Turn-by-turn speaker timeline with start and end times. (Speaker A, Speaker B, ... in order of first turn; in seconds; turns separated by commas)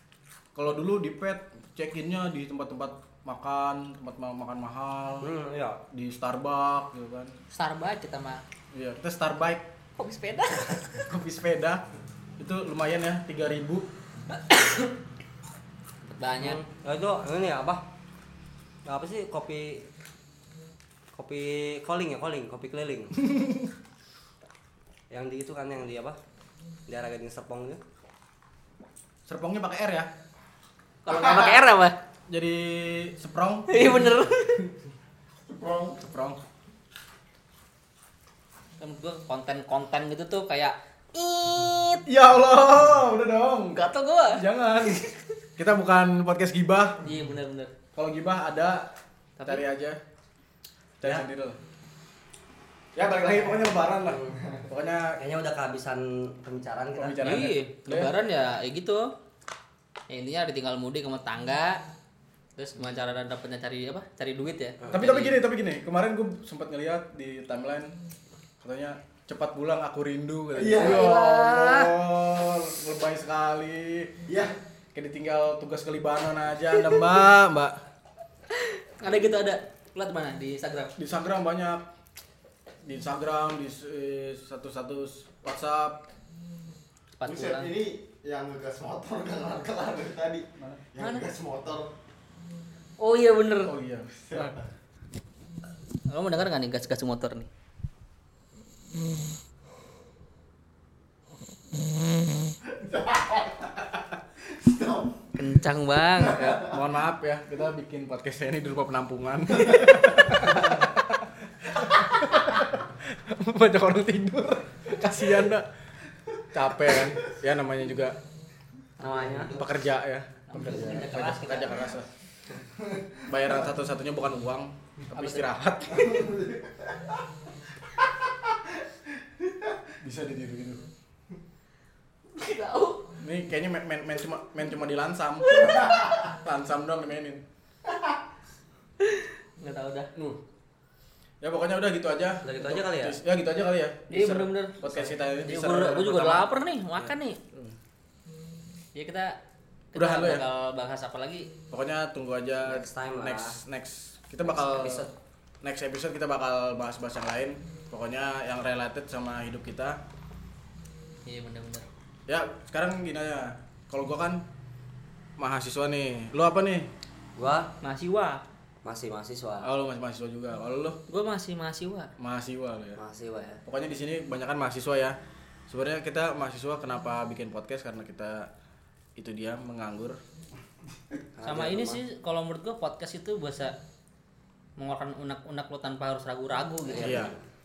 Speaker A: 0.5-5.3, Speaker B: 5.2-5.8, Speaker A: 5.9-7.3, Speaker C: 7.5-8.4, Speaker A: 8.7-9.7, Speaker C: 10.0-11.1, Speaker A: 11.1-11.8, Speaker A: 12.4-13.9, Speaker C: 14.3-14.9, Speaker C: 16.1-16.6, Speaker B: 16.4-17.8, Speaker B: 18.9-19.9, Speaker B: 21.1-23.2, Speaker A: 23.3-23.7, Speaker B: 25.1-26.2, Speaker B: 26.9-27.8, Speaker A: 29.2-30.1, Speaker C: 31.0-31.9, Speaker A: 32.3-34.0, Speaker C: 33.7-34.7, Speaker D: 35.5-36.0, Speaker A: 36.0-36.4, Speaker C: 38.8-42.0, Speaker A: 42.0-47.1, Speaker C: 43.7-45.1, Speaker C: 47.0-47.7, Speaker A: 47.9-48.9, Speaker C: 49.4-49.6, Speaker A: 49.4-50.0, Speaker A: 51.0-51.6, Speaker A: 52.9-55.2, Speaker B: 54.1-54.3, Speaker B: 55.2-57.2, Speaker A: 57.0-58.1, Speaker C: 57.2-59.1, Speaker C: 60.1-61.8, Speaker C: 62.5-65.4, Speaker A: 64.9-67.9, Speaker A: 68.6-74.1, Speaker D: 70.5-71.2, Speaker C: 70.8-72.0, Speaker D: 74.3-74.5, Speaker A: 74.9-77.8, Speaker C: 78.5-80.9, Speaker A: 81.0-81.8, Speaker A: 82.8-86.0, Speaker C: 87.2-87.7, Speaker D: 87.2-91.9, Speaker C: 91.0-91.2, Speaker C: 93.0-93.7, Speaker A: 93.6-94.5, Speaker D: 94.3-94.6, Speaker C: 96.1-97.5, Speaker D: 102.7-103.9, Speaker D: 104.5-105.3, Speaker C: 105.4-106.7, Speaker D: 106.2-106.8, Speaker A: 106.6-115.7, Speaker A: 116.5-118.2, Speaker B: 119.0-119.6, Speaker A: 119.5-122.1, Speaker C: 120.5-121.8, Speaker D: 122.8-123.2, Speaker A: 123.3-126.3, Speaker C: 125.1-125.5, Speaker D: 125.9-127.2, Speaker D: 129.4-129.8, Speaker A: 130.0-130.8, Speaker C: 132.3-133.1, Speaker A: 133.2-137.4, Speaker C: 135.6-136.2, Speaker C: 139.0-140.1, Speaker A: 140.1-140.4, Speaker A: 141.4-146.5, Speaker B: 142.4-143.2, Speaker C: 144.1-147.4, Speaker C: 148.9-149.4, Speaker C: 149.9-151.5, Speaker A: 149.9-150.4, Speaker A: 151.7-155.1, Speaker B: 152.6-153.6, Speaker B: 154.4-155.1, Speaker A: 155.6-160.0, Speaker C: 161.2-161.8, Speaker A: 162.3-164.4, Speaker A: 165.4-166.9, Speaker B: 167.4-167.7, Speaker C: 167.8-168.4, Speaker B: 168.8-169.7, Speaker A: 169.6-171.0, Speaker C: 171.1-172.1, Speaker A: 172.2-173.0, Speaker B: 172.9-173.6, Speaker A: 173.7-175.2, Speaker A: 175.7-178.5, Speaker A: 179.2-180.2, Speaker B: 181.4-182.0, Speaker C: 181.4-183.7, Speaker C: 184.8-187.3, Speaker B: 186.9-187.4, Speaker A: 187.0-187.3